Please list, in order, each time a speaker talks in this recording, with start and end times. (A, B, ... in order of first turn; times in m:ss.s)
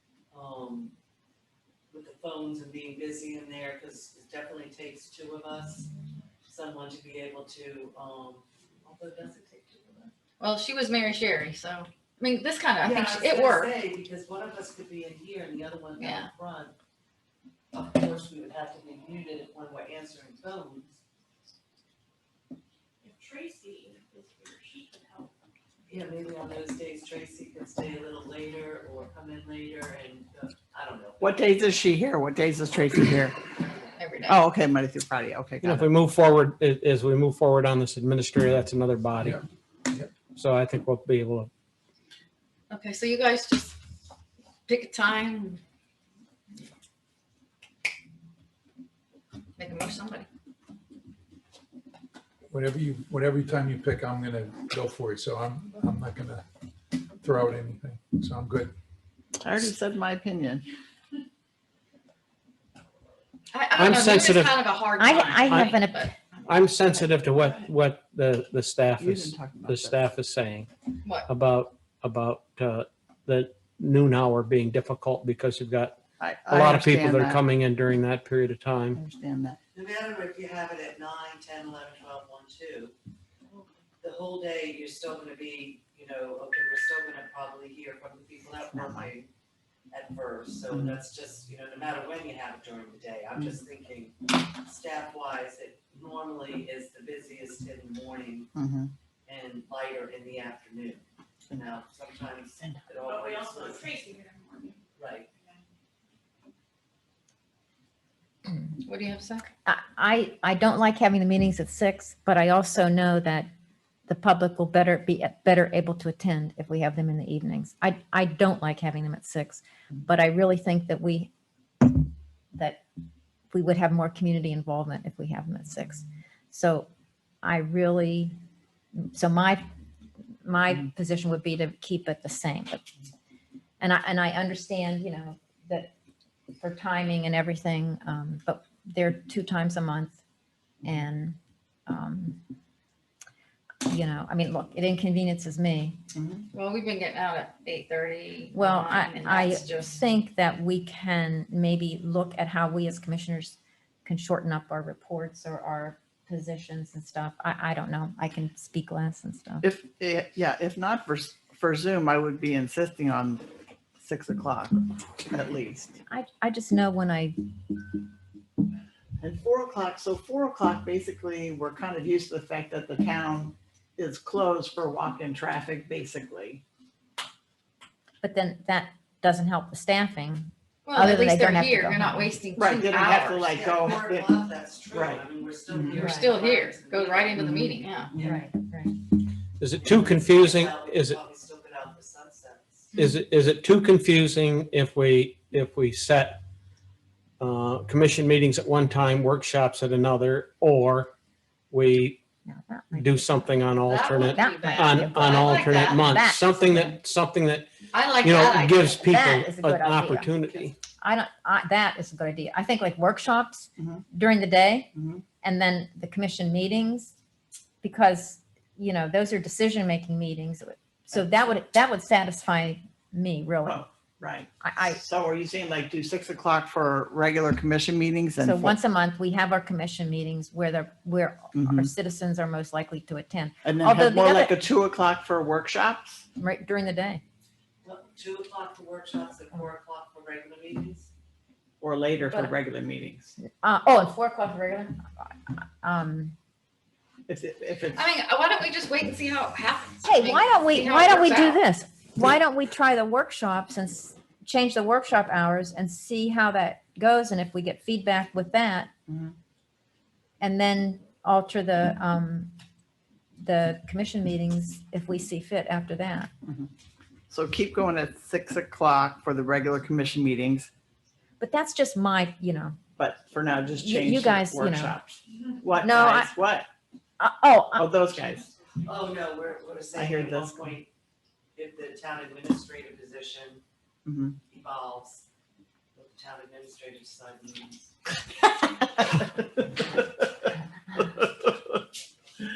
0:00.3-0:00.9 A
0:01.9-0:05.9 A
0:06.5-0:10.1 A
0:10.4-0:13.7 B
0:12.8-0:16.7 A
0:16.0-0:16.3 B
0:17.7-0:21.0 A
0:23.0-0:25.2 C
0:23.3-0:24.1 D
0:25.9-0:31.4 A
0:31.2-0:33.4 E
0:34.0-0:34.4 B
0:34.3-0:35.9 E
0:35.6-0:39.4 F
0:40.3-0:41.5 F
0:42.7-0:43.7 B
0:44.7-0:45.6 B
0:49.6-0:50.3 B
0:52.5-0:56.4 D
0:57.2-0:58.7 D
0:59.4-1:00.6 E
1:03.5-1:06.1 B
1:03.7-1:04.6 F
1:05.0-1:06.0 G
1:05.5-1:05.7 F
1:06.4-1:10.7 F
1:09.0-1:10.0 E
1:11.2-1:19.0 F
1:16.2-1:17.4 E
1:18.9-1:19.6 E
1:19.7-1:22.9 A
1:24.0-1:29.3 A
1:29.9-1:38.5 A
1:38.5-1:38.9 E
1:39.2-1:44.0 A
1:43.1-1:44.7 C
1:45.0-1:45.3 A
1:48.8-1:49.4 B
1:49.6-1:53.5 G
1:54.1-2:01.3 G
2:02.5-2:02.8 G
2:03.5-2:06.9 G
2:07.4-2:08.3 G
2:09.0-2:09.6 G
2:10.4-2:12.9 G
2:13.8-2:15.9 G
2:16.6-2:20.2 G
2:20.8-2:22.4 G
2:23.8-2:26.0 G
2:26.1-2:26.5 E
2:26.5-2:29.9 B
2:28.5-2:39.6 G
2:39.6-2:43.4 E
2:44.0-2:45.9 E
2:46.1-2:47.4 G
2:49.2-2:56.6 E
2:58.2-3:02.3 G
3:00.8-3:03.6 B
3:02.6-3:04.3 E
3:03.5-3:07.4 A
3:04.9-3:06.0 E
3:06.0-3:08.1 B
3:06.0-3:06.2 G
3:07.4-3:08.3 E
3:08.2-3:08.9 G
3:09.6-3:11.2 F
3:09.8-3:12.9 A
3:12.9-3:16.4 F
3:17.4-3:21.1 F
3:21.7-3:22.2 F
3:22.4-3:23.4 G
3:22.9-3:30.8 F
3:23.8-3:26.0 B
3:24.2-3:27.0 G
3:27.9-3:29.0 B
3:28.9-3:34.9 G
3:33.8-3:34.0 E
3:34.9-3:35.2 E
3:35.4-3:37.1 G
3:37.8-3:43.8 G
3:43.6-3:48.8 E
3:44.6-3:45.0 G
3:48.4-3:54.6 G
3:51.5-3:51.9 E
3:53.6-3:56.2 E
3:56.4-3:57.2 G
3:57.8-4:01.1 A
4:01.8-4:03.3 E
4:03.5-4:06.3 G
4:07.3-4:08.1 E
4:07.9-4:11.6 B
4:10.0-4:18.9 G
4:19.1-4:19.3 E
4:20.4-4:22.5 G
4:23.4-4:26.3 G
4:27.3-4:30.7 E
4:31.4-4:32.8 G
4:33.0-4:36.7 E
4:33.8-4:35.0 G
4:35.8-4:36.3 G
4:37.2-4:37.8 G
4:37.8-4:38.5 E
4:38.8-4:40.9 A
4:39.9-4:40.6 E
4:41.5-4:43.6 A
4:44.0-4:44.4 E
4:44.4-4:45.3 A
4:45.9-4:47.9 A
4:51.0-4:51.5 E